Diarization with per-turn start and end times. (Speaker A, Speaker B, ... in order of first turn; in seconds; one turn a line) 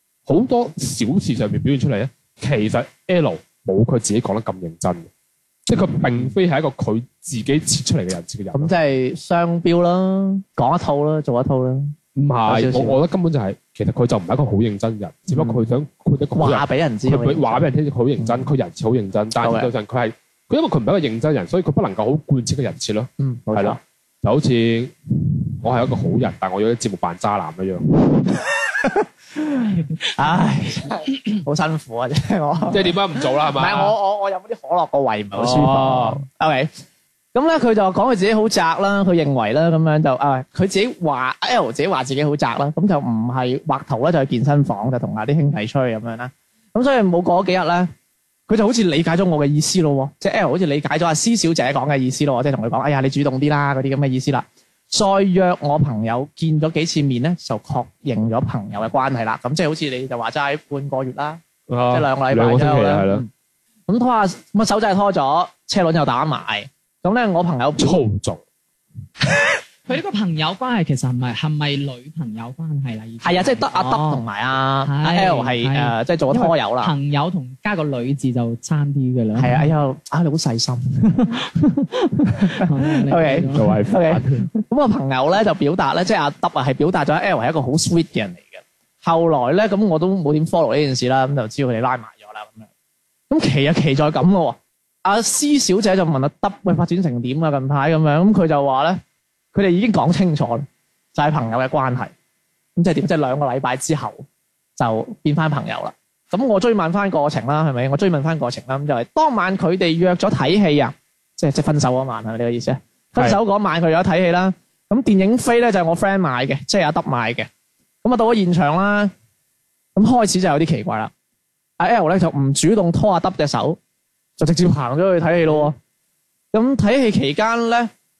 Speaker A: 0.3-5.1
Speaker A: 5.7-8.7
Speaker B: 6.0-6.3
Speaker B: 8.5-11.9
Speaker A: 12.2-24.9
Speaker B: 12.5-13.0
Speaker B: 15.3-15.7
Speaker B: 16.4-17.7
Speaker B: 19.4-19.7
Speaker B: 23.2-23.8
Speaker A: 25.6-27.9
Speaker B: 28.1-36.7
Speaker A: 32.7-34.0
Speaker A: 35.3-36.2
Speaker B: 37.3-47.9
Speaker B: 48.5-63.3
Speaker A: 61.7-63.2
Speaker B: 63.9-68.0
Speaker A: 67.8-68.4
Speaker C: 69.9-74.2
Speaker B: 73.2-76.9
Speaker C: 74.8-79.7
Speaker B: 79.4-81.5
Speaker C: 81.1-83.7
Speaker B: 82.3-92.7
Speaker A: 83.5-84.5
Speaker B: 93.3-99.0
Speaker B: 99.5-102.1
Speaker B: 102.8-104.2
Speaker B: 104.8-117.5
Speaker B: 118.0-119.1
Speaker B: 120.0-121.1
Speaker B: 121.8-123.8
Speaker B: 124.4-125.8
Speaker B: 126.5-127.9